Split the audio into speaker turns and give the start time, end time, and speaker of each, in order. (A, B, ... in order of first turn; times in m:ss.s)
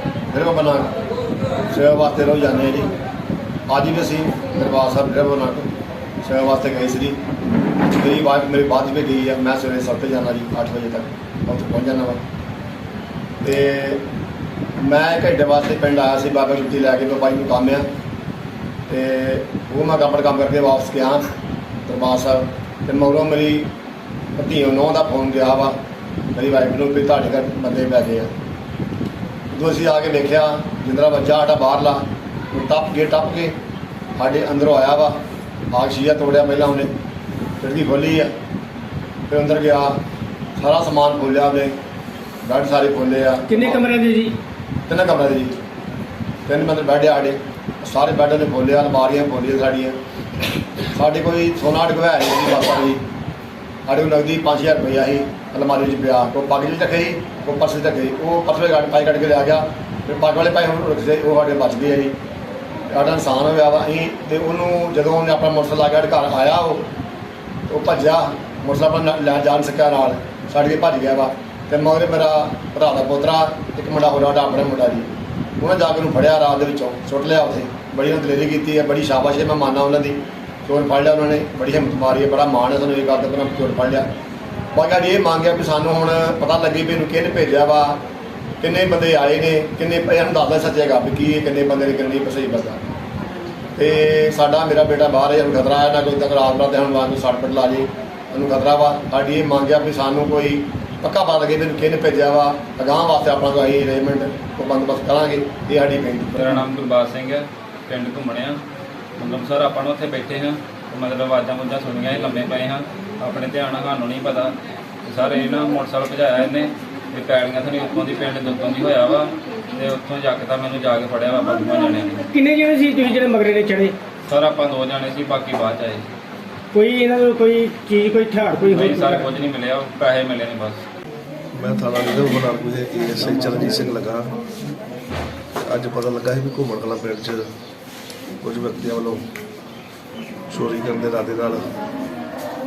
0:00.3-0:00.9 A
0:01.7-0:02.9 A
0:03.7-0:05.7 A
0:06.2-0:07.2 A
0:07.9-0:12.2 A
0:13.4-0:14.0 A
0:14.8-0:17.9 A
0:18.9-0:21.2 A
0:21.8-0:23.7 A
0:24.4-0:25.8 A
0:26.3-0:28.3 A
0:29.5-0:33.5 A
0:34.2-0:35.2 A
0:35.7-0:36.9 A
0:37.6-0:38.3 A
0:39.3-0:40.0 A
0:40.6-0:41.8 A
0:42.4-0:43.8 A
0:43.5-0:44.3 B
0:44.9-0:45.6 A
0:46.5-0:50.0 A
0:50.9-0:53.0 A
0:53.9-1:02.1 A
1:02.9-1:06.8 A
1:07.7-1:24.1 A
1:24.7-1:28.0 A
1:28.6-1:32.8 A
1:33.8-1:46.6 A
1:46.3-1:48.6 C
1:49.2-2:02.3 C
2:02.3-2:03.9 B
2:04.3-2:06.0 C
2:06.7-2:09.2 B
2:08.6-2:10.8 C
2:11.5-2:14.3 D
2:15.6-2:17.5 D
2:18.4-2:19.2 D
2:20.5-2:21.6 D